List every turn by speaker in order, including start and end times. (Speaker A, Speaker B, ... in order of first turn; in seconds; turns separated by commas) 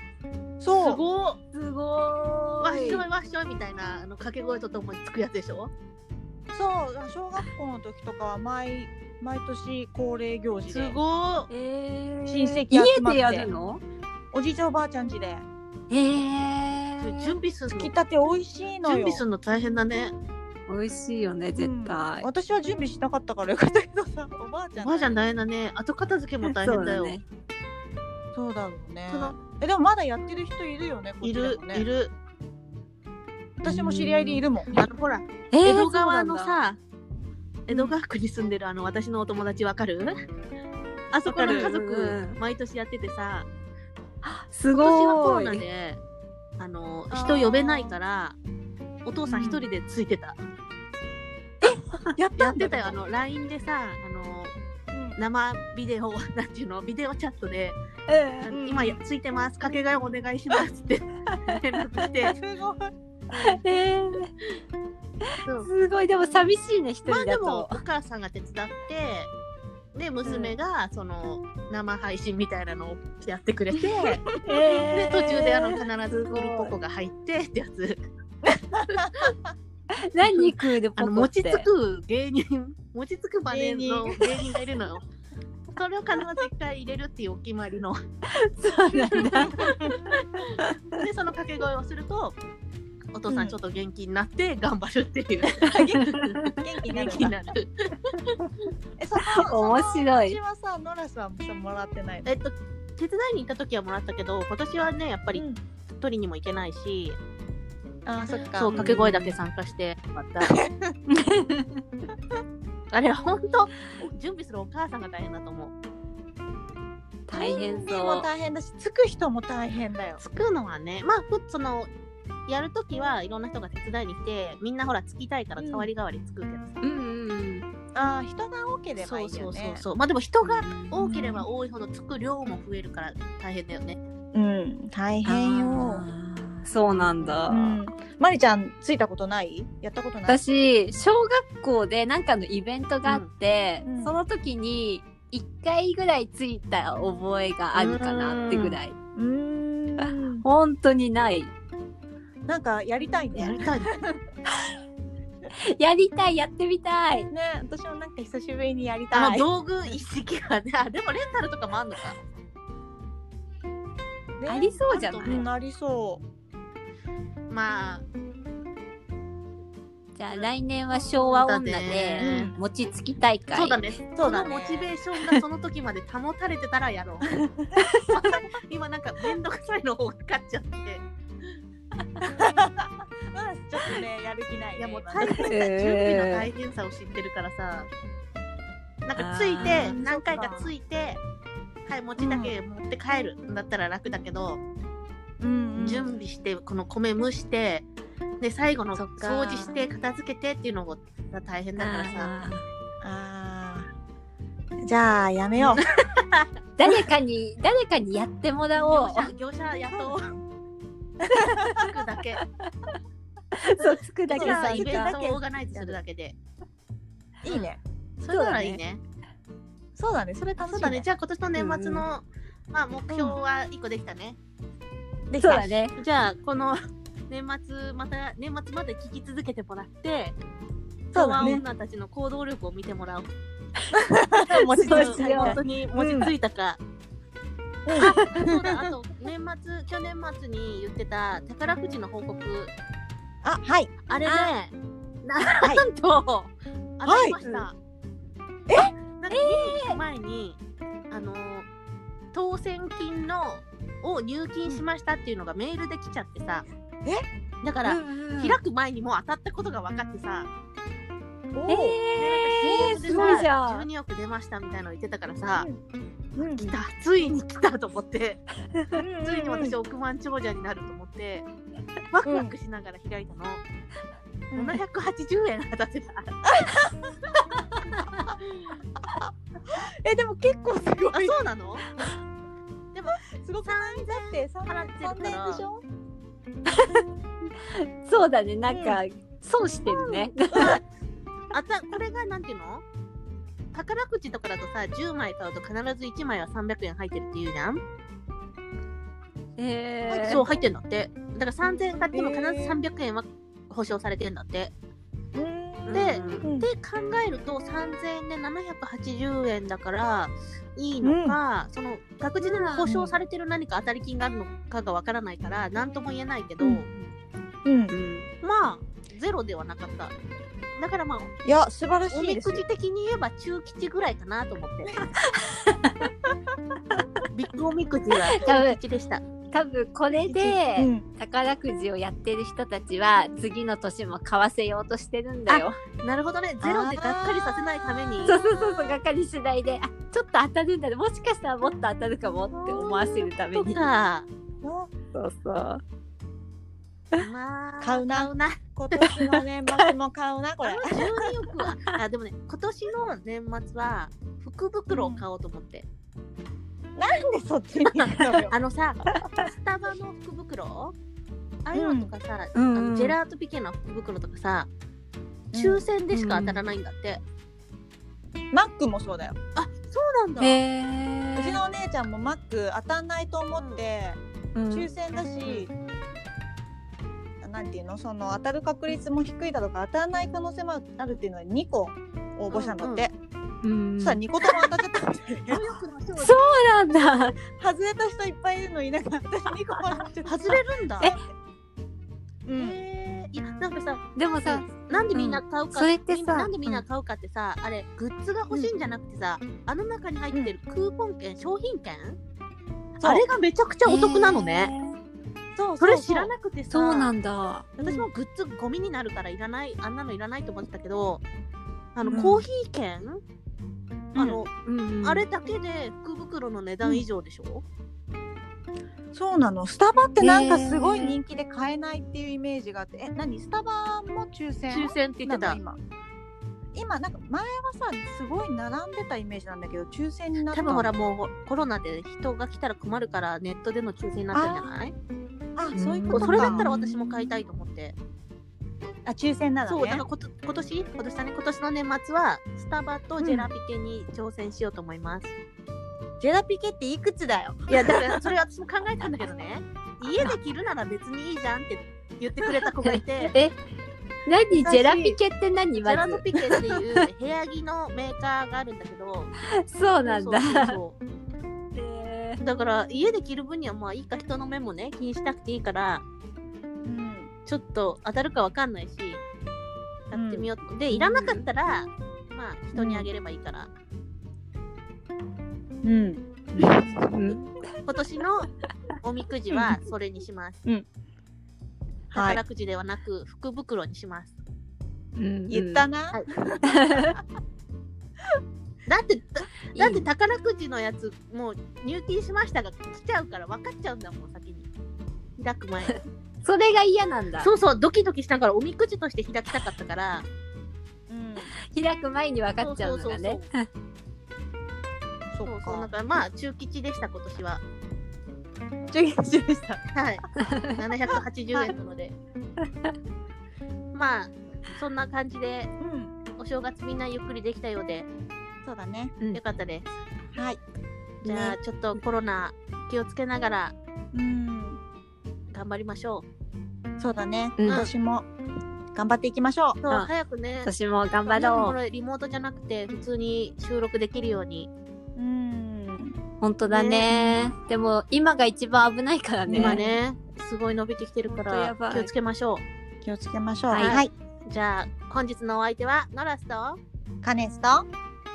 Speaker A: 0.6-1.0, Speaker B: 0.8-1.4, Speaker C: 1.5-3.0, Speaker B: 2.6-5.7, Speaker A: 6.5-11.0, Speaker B: 10.7-11.5, Speaker C: 11.5-13.8, Speaker A: 12.2-13.5, Speaker A: 14.3-15.4, Speaker C: 15.9-17.4, Speaker B: 17.0-17.9, Speaker A: 17.7-19.2, Speaker B: 18.8-20.1, Speaker C: 20.7-22.3, Speaker A: 21.6-25.3, Speaker B: 24.8-27.2, Speaker C: 26.4-27.2, Speaker A: 28.3-31.8, Speaker B: 29.1-29.4, Speaker B: 31.2-32.1, Speaker A: 33.6-34.8, Speaker C: 33.6-34.4, Speaker B: 34.7-36.8, Speaker C: 35.5-36.6, Speaker B: 37.7-40.1, Speaker A: 37.7-38.0, Speaker B: 41.1-43.5, Speaker A: 41.3-41.7, Speaker C: 41.4-42.4, Speaker C: 44.2-45.6, Speaker B: 44.7-46.0, Speaker B: 46.6-48.4, Speaker A: 47.1-48.0, Speaker B: 49.0-50.4, Speaker A: 49.3-49.6, Speaker A: 51.6-53.0, Speaker B: 52.4-54.5, Speaker A: 54.9-55.2, Speaker B: 55.2-57.8, Speaker C: 58.1-58.5, Speaker B: 58.5-62.4, Speaker A: 58.5-59.0, Speaker C: 61.3-61.8, Speaker A: 62.2-63.6, Speaker C: 63.3-64.3, Speaker C: 65.6-67.8, Speaker B: 67.0-69.3, Speaker B: 69.9-78.0, Speaker C: 70.2-70.5, Speaker C: 74.4-76.7, Speaker B: 78.5-79.3, Speaker A: 78.7-79.5, Speaker C: 80.0-81.7, Speaker B: 80.3-85.0, Speaker A: 83.5-84.6, Speaker B: 85.7-88.0, Speaker C: 88.3-90.8, Speaker A: 89.2-89.9, Speaker B: 89.2-92.4, Speaker B: 93.1-98.3, Speaker A: 93.3-93.5, Speaker A: 95.6-97.3, Speaker C: 95.7-96.6, Speaker A: 99.0-102.2, Speaker C: 99.2-100.4, Speaker B: 102.2-107.2, Speaker A: 105.3-105.6, Speaker A: 108.0-109.1, Speaker B: 108.3-110.6, Speaker C: 108.7-109.3, Speaker A: 110.4-110.9, Speaker C: 111.1-111.8, Speaker B: 112.9-115.7, Speaker C: 117.3-118.3, Speaker A: 117.3-120.2, Speaker B: 120.2-121.9, Speaker B: 122.5-126.8, Speaker A: 125.6-125.9, Speaker C: 126.8-127.7, Speaker A: 127.9-129.8, Speaker B: 129.0-134.0, Speaker C: 130.4-131.4, Speaker A: 134.3-136.1, Speaker C: 135.2-137.8, Speaker B: 136.9-137.4, Speaker A: 137.5-140.4, Speaker C: 140.3-148.9, Speaker A: 143.8-144.2, Speaker B: 147.7-148.8, Speaker A: 149.2-150.4, Speaker C: 150.0-151.5, Speaker A: 152.5-154.1, Speaker B: 153.3-153.9, Speaker C: 155.6-157.3, Speaker A: 157.3-159.5, Speaker B: 159.1-162.2, Speaker A: 164.4-166.2, Speaker C: 164.5-165.4, Speaker B: 164.9-165.5, Speaker B: 167.5-168.0, Speaker C: 170.1-173.9, Speaker B: 171.1-172.5, Speaker A: 172.2-172.6, Speaker B: 173.5-177.3, Speaker A: 174.2-174.9, Speaker C: 177.8-178.2, Speaker B: 178.1-181.0, Speaker A: 182.2-185.6, Speaker B: 184.8-187.9, Speaker C: 185.5-186.5, Speaker B: 189.0-191.2, Speaker C: 189.2-190.0, Speaker A: 189.6-190.7, Speaker B: 191.9-194.6, Speaker A: 192.2-192.5, Speaker A: 195.4-196.1, Speaker C: 195.8-196.0, Speaker B: 195.8-197.9, Speaker B: 198.4-202.3, Speaker C: 198.9-199.8, Speaker C: 201.8-202.6, Speaker A: 203.0-203.9, Speaker A: 204.8-205.8, Speaker B: 205.7-206.4, Speaker C: 206.8-209.3, Speaker B: 208.8-210.3, Speaker A: 209.9-210.2, Speaker A: 211.2-211.8, Speaker B: 211.5-212.4, Speaker C: 213.5-215.2, Speaker B: 214.3-216.4, Speaker A: 214.3-216.0, Speaker A: 217.4-217.8, Speaker B: 218.2-219.0, Speaker C: 218.3-218.8, Speaker A: 219.9-221.1, Speaker B: 220.6-224.4, Speaker C: 221.6-222.0, Speaker A: 223.1-223.4, Speaker A: 225.3-225.8, Speaker C: 225.4-225.9, Speaker B: 225.9-230.3, Speaker B: 231.1-233.3, Speaker A: 231.1-231.6, Speaker A: 233.9-236.3, Speaker C: 234.5-235.6, Speaker B: 234.8-236.8, Speaker A: 237.8-238.9, Speaker C: 237.9-238.4, Speaker B: 238.1-242.7, Speaker A: 243.4-244.5, Speaker B: 244.1-247.8, Speaker A: 247.0-247.4, Speaker A: 248.7-248.9, Speaker B: 249.2-250.6, Speaker C: 249.3-250.0, Speaker B: 251.1-251.7, Speaker B: 252.3-256.6, Speaker B: 257.6-260.5, Speaker C: 257.8-258.6, Speaker A: 261.5-262.0, Speaker C: 261.7-263.9, Speaker B: 262.2-265.7, Speaker A: 262.6-263.5, Speaker A: 266.4-266.7, Speaker B: 266.6-268.4, Speaker A: 268.9-269.8, Speaker B: 269.2-271.5, Speaker B: 272.1-273.6, Speaker A: 272.2-272.5, Speaker A: 274.5-274.8, Speaker B: 274.6-276.6, Speaker A: 276.4-277.1, Speaker C: 277.9-278.3, Speaker A: 279.1-281.5, Speaker B: 281.1-281.9, Speaker B: 282.9-285.6, Speaker A: 283.1-285.8, Speaker C: 286.7-287.0, Speaker C: 287.7-290.8, Speaker A: 288.7-289.0, Speaker A: 289.8-290.8, Speaker B: 291.5-292.8, Speaker B: 293.7-297.8, Speaker C: 299.6-300.5, Speaker B: 300.1-304.7, Speaker A: 300.1-300.6, Speaker A: 302.1-302.8, Speaker A: 305.3-306.7, Speaker C: 305.9-306.5, Speaker B: 305.9-317.1, Speaker A: 311.0-311.4, Speaker C: 312.4-313.0, Speaker A: 312.8-313.1, Speaker A: 317.6-317.9, Speaker C: 317.9-318.3, Speaker B: 318.4-320.1, Speaker B: 320.7-321.3, Speaker A: 321.4-322.6, Speaker B: 322.1-325.0, Speaker C: 325.2-326.1, Speaker B: 327.3-329.2, Speaker C: 328.3-328.8, Speaker C: 329.5-335.8, Speaker B: 330.2-330.6, Speaker A: 330.8-331.0, Speaker B: 335.5-338.4, Speaker A: 336.6-338.9, Speaker C: 338.2-343.8, Speaker B: 342.5-344.3, Speaker A: 344.6-344.9, Speaker C: 345.1-345.8, Speaker B: 347.2-348.6, Speaker A: 347.8-351.1, Speaker B: 350.6-355.9, Speaker A: 354.9-355.2, Speaker A: 356.9-358.5, Speaker B: 357.8-360.9, Speaker B: 361.6-364.7, Speaker A: 361.7-362.1, Speaker C: 362.5-363.1, Speaker A: 365.5-365.9, Speaker B: 365.5-367.2, Speaker C: 366.1-366.6, Speaker A: 368.5-369.4, Speaker B: 369.6-370.6, Speaker C: 370.4-371.6, Speaker A: 371.4-374.2, Speaker C: 374.5-374.9, Speaker A: 374.7-375.7, Speaker A: 377.4-383.1, Speaker B: 382.5-383.0, Speaker C: 383.6-384.2, Speaker A: 384.0-385.6, Speaker B: 385.5-386.4, Speaker C: 386.2-387.4, Speaker A: 387.5-391.2, Speaker B: 390.2-391.1, Speaker A: 392.4-392.8, Speaker B: 392.5-402.2, Speaker C: 394.1-396.8, Speaker B: 403.0-404.7, Speaker A: 403.0-403.2, Speaker C: 403.8-405.0, Speaker A: 405.5-406.3, Speaker B: 405.8-407.1, Speaker C: 406.7-407.7, Speaker B: 407.8-411.2, Speaker A: 407.8-408.1, Speaker B: 411.9-413.2, Speaker A: 412.0-412.4, Speaker A: 414.1-414.4, Speaker B: 414.2-414.5, Speaker C: 414.6-415.2, Speaker B: 415.0-417.6, Speaker A: 419.1-425.8, Speaker C: 420.2-421.1, Speaker B: 424.7-425.6, Speaker A: 426.7-430.9, Speaker B: 430.5-434.9, Speaker A: 434.3-434.6, Speaker A: 435.6-436.6, Speaker C: 435.7-437.3, Speaker B: 436.1-437.9, Speaker A: 439.0-440.0, Speaker B: 439.7-445.3, Speaker A: 443.2-443.5, Speaker A: 446.2-448.3, Speaker B: 447.7-453.3, Speaker C: 452.8-453.5, Speaker C: 454.2-456.2, Speaker A: 454.6-455.2, Speaker B: 455.8-459.3, Speaker C: 459.5-460.8, Speaker B: 460.0-461.0, Speaker C: 461.7-462.4, Speaker B: 462.4-466.0, Speaker A: 466.8-467.3, Speaker B: 467.4-469.2, Speaker B: 470.1-473.7, Speaker A: 470.1-470.5, Speaker C: 470.9-471.4, Speaker A: 472.8-473.1, Speaker A: 475.8-476.9, Speaker C: 476.5-477.5, Speaker B: 477.9-478.5, Speaker B: 479.0-480.6, Speaker A: 482.1-482.4, Speaker B: 482.1-484.3, Speaker C: 485.1-485.9, Speaker A: 485.5-487.2, Speaker C: 486.6-487.1, Speaker B: 488.9-494.7, Speaker C: 489.7-490.1, Speaker B: 495.4-496.0, Speaker C: 496.4-497.5, Speaker B: 497.4-500.2, Speaker A: 501.1-501.5, Speaker C: 501.6-503.6, Speaker B: 502.6-503.4, Speaker A: 505.3-505.9, Speaker B: 505.4-507.6, Speaker A: 508.9-509.8, Speaker B: 509.9-512.2, Speaker C: 510.4-510.8, Speaker B: 513.9-515.7, Speaker A: 515.8-516.1, Speaker B: 516.4-518.1, Speaker A: 518.6-519.2, Speaker B: 519.3-519.9, Speaker A: 520.3-520.6, Speaker B: 521.2-523.7, Speaker C: 521.3-521.5, Speaker A: 524.1-524.8, Speaker B: 525.5-526.2, Speaker A: 527.0-528.3, Speaker C: 527.6-527.9, Speaker A: 528.9-529.8, Speaker B: 529.8-530.7, Speaker C: 530.6-531.7, Speaker B: 531.2-534.7, Speaker A: 535.1-536.1, Speaker C: 536.4-539.8, Speaker B: 536.7-537.4, Speaker A: 539.5-539.9, Speaker B: 539.5-542.6, Speaker C: 541.3-542.1, Speaker A: 543.0-544.1, Speaker C: 543.7-544.0, Speaker B: 543.8-546.8, Speaker A: 547.2-547.9